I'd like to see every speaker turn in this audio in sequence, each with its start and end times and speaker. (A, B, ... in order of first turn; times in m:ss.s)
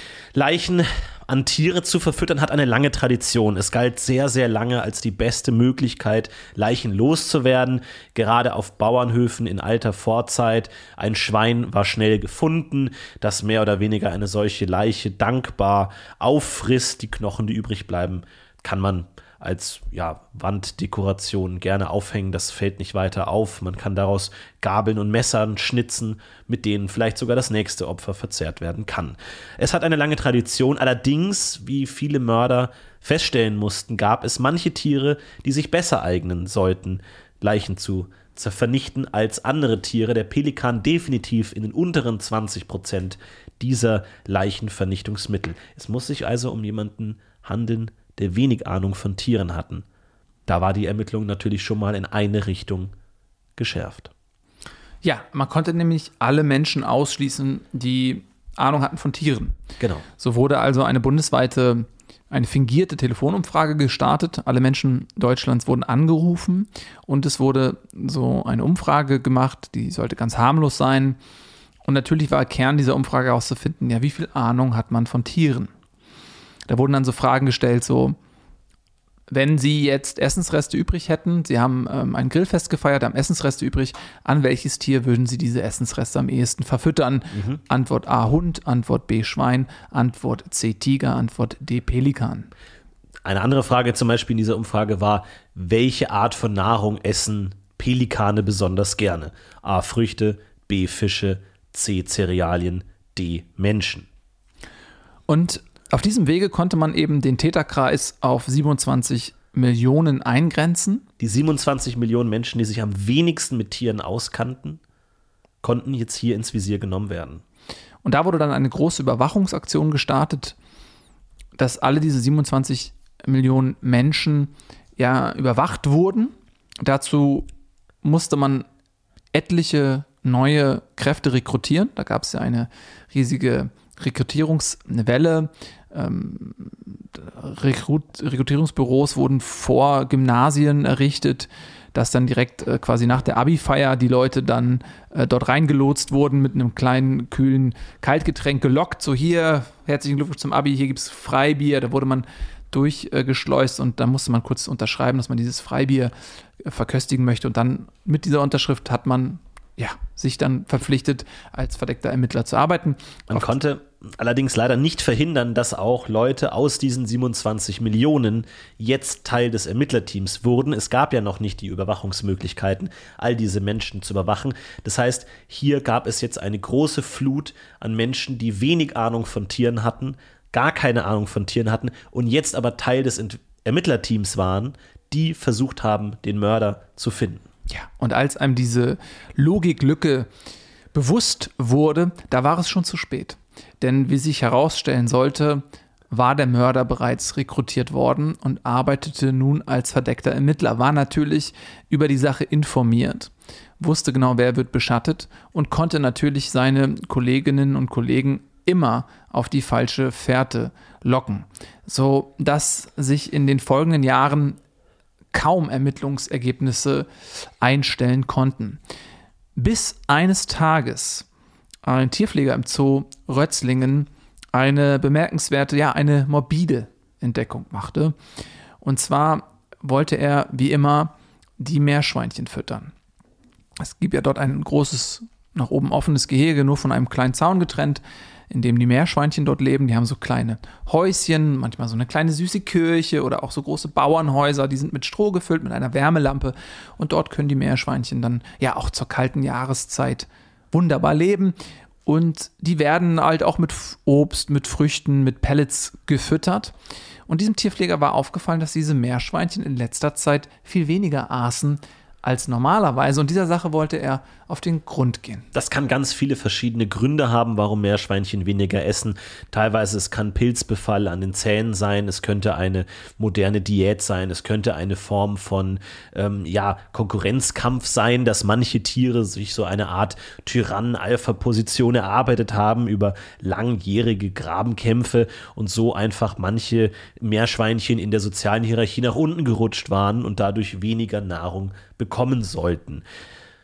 0:00.3-0:49.8 A
0:50.5-0:52.9 A
0:53.6-0:54.1 A
0:55.0-0:59.5 B
0:59.8-1:00.0 A
1:00.2-1:11.2 B
1:11.8-1:15.7 B
1:16.7-1:18.2 B
1:19.3-1:32.5 B
1:27.3-1:27.6 A
1:33.2-1:44.1 A
1:45.3-1:51.0 B
1:51.2-1:54.8 A
1:55.6-1:57.4 A
1:58.0-2:00.6 B
2:01.6-2:07.5 B
2:08.0-2:08.6 B
2:09.3-2:43.5 B
2:43.3-3:07.5 A
3:07.7-3:10.3 B
3:10.9-3:34.6 B
3:35.3-3:37.1 B
3:37.6-3:38.8 B
3:39.6-3:41.2 B
3:41.8-3:48.1 B
3:48.8-3:52.9 B
3:53.8-4:11.5 B
4:12.0-4:16.7 B
4:17.3-4:25.5 B
4:25.5-4:53.0 A